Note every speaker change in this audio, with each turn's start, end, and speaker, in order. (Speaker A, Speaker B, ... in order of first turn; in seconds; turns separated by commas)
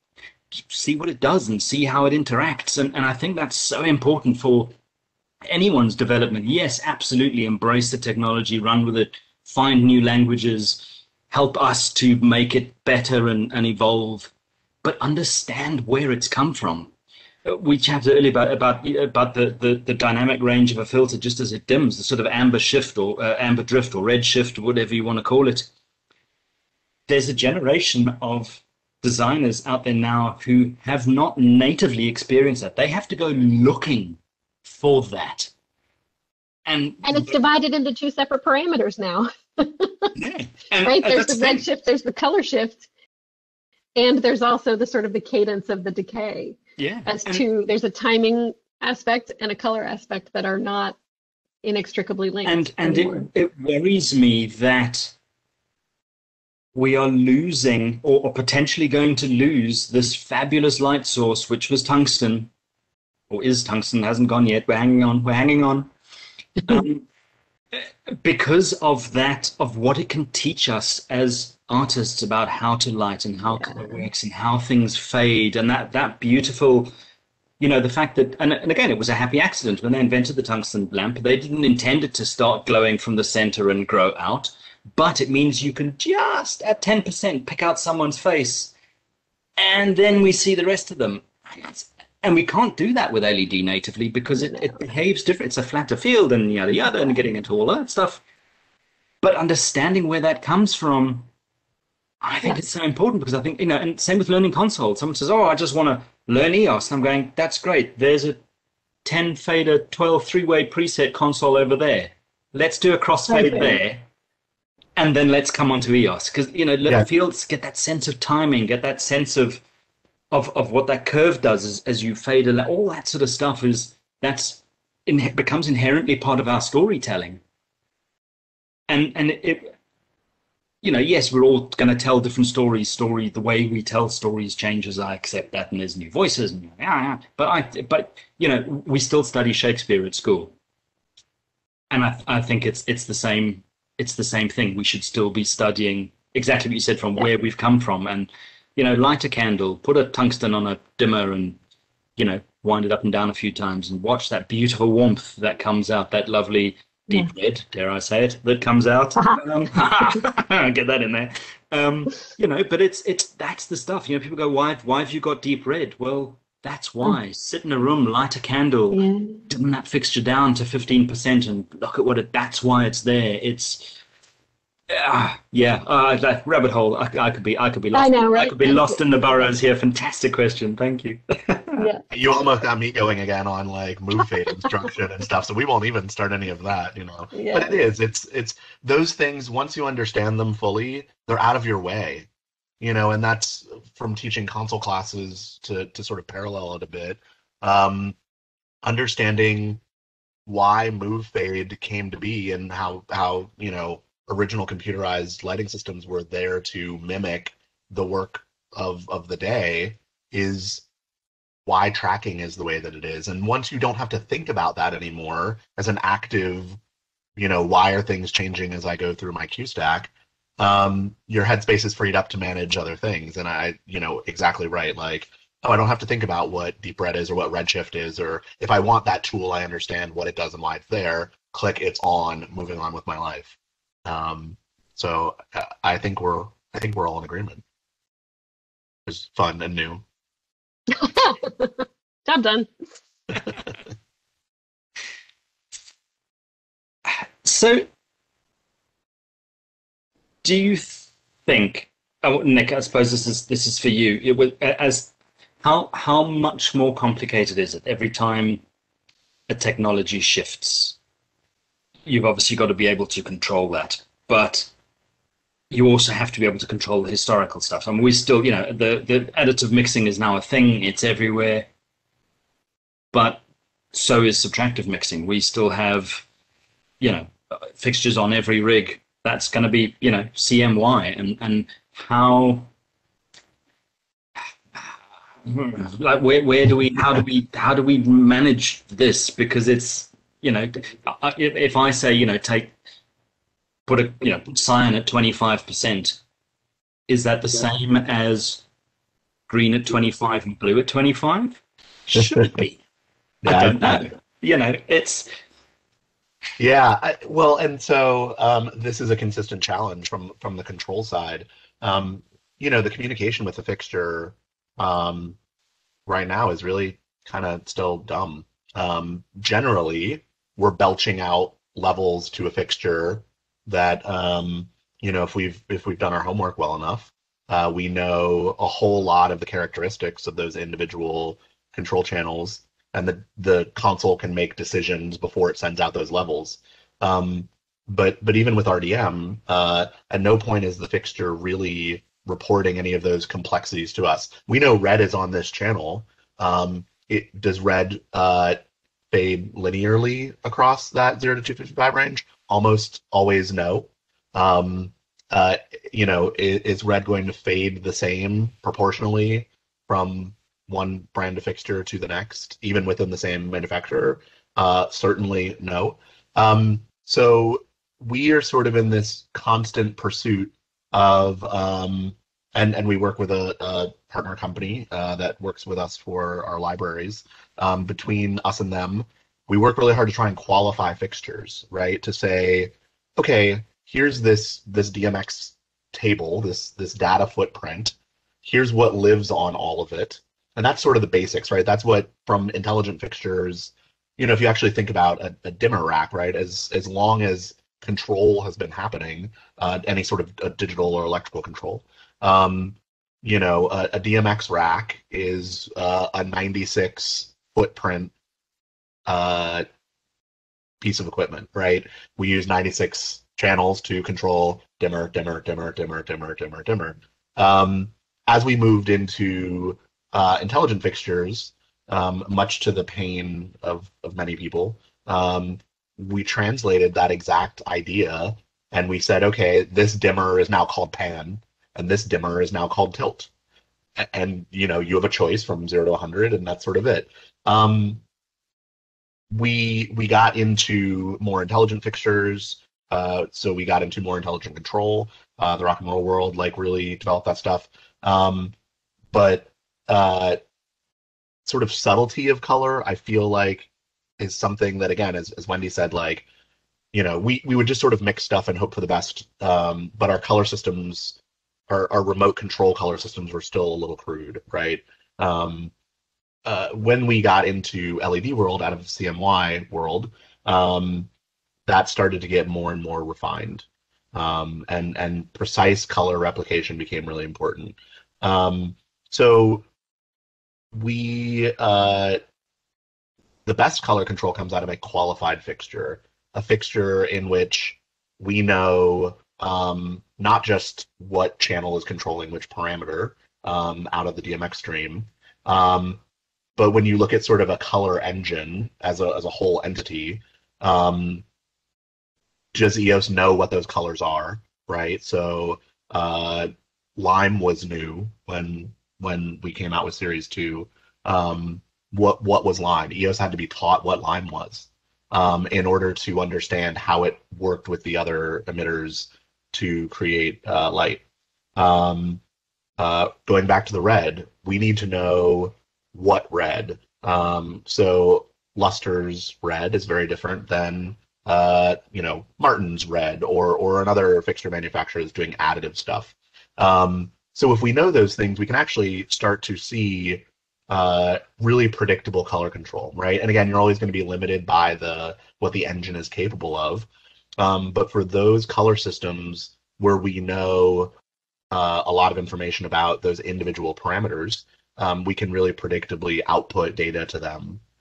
Speaker A: 0.5-4.7, Speaker A: 5.5-14.3, Speaker A: 14.8-16.9, Speaker A: 17.5-25.7, Speaker A: 27.1-35.5, Speaker A: 36.6-37.4, Speaker B: 37.0-40.1, Speaker A: 40.2-41.6, Speaker B: 40.8-42.9, Speaker B: 44.0-51.0, Speaker A: 46.8-47.4, Speaker B: 51.6-53.3, Speaker A: 52.5-55.1, Speaker A: 56.8-62.5, Speaker A: 63.3-65.9, Speaker A: 66.7-67.1, Speaker A: 67.7-76.9, Speaker B: 73.5-73.8, Speaker A: 77.6-88.7, Speaker A: 89.6-98.2, Speaker B: 94.4-94.8, Speaker A: 99.2-101.3, Speaker A: 102.2-108.4, Speaker A: 109.0-114.0, Speaker B: 113.3-113.8, Speaker A: 115.0-119.6, Speaker A: 120.3-127.4, Speaker A: 128.9-129.7, Speaker A: 130.8-140.5, Speaker A: 141.9-151.6, Speaker A: 152.2-173.9, Speaker B: 168.9-169.4, Speaker A: 174.9-181.8, Speaker B: 177.9-179.0, Speaker B: 181.8-182.0, Speaker C: 182.1-192.3, Speaker B: 187.3-187.8, Speaker C: 192.8-198.2, Speaker C: 198.8-199.8, Speaker C: 200.5-210.8, Speaker C: 211.7-216.8, Speaker C: 217.4-237.6, Speaker C: 239.1-240.0, Speaker B: 240.9-242.7, Speaker A: 247.1-247.9, Speaker A: 250.4-258.6, Speaker A: 259.5-261.0, Speaker A: 262.1-264.7, Speaker A: 265.7-271.7, Speaker A: 273.1-273.4, Speaker A: 273.9-276.2, Speaker A: 277.0-282.7, Speaker A: 284.7-292.7, Speaker A: 293.9-296.2, Speaker A: 297.1-298.6, Speaker A: 299.5-302.8, Speaker C: 303.4-304.1, Speaker A: 303.4-305.3, Speaker C: 306.6-315.4, Speaker C: 316.1-408.1, Speaker C: 409.1-409.6, Speaker C: 410.8-433.3, Speaker C: 434.0-438.0, Speaker C: 439.3-448.5, Speaker C: 449.1-450.4, Speaker C: 451.4-453.7, Speaker C: 454.2-456.2, Speaker C: 456.9-461.2, Speaker C: 461.7-465.7, Speaker C: 466.4-471.1, Speaker C: 471.7-479.7, Speaker C: 480.7-482.2, Speaker C: 483.5-496.0, Speaker C: 496.6-501.2, Speaker C: 502.5-521.0, Speaker C: 521.6-522.2, Speaker C: 522.8-546.9, Speaker C: 547.4-550.9, Speaker C: 551.5-557.6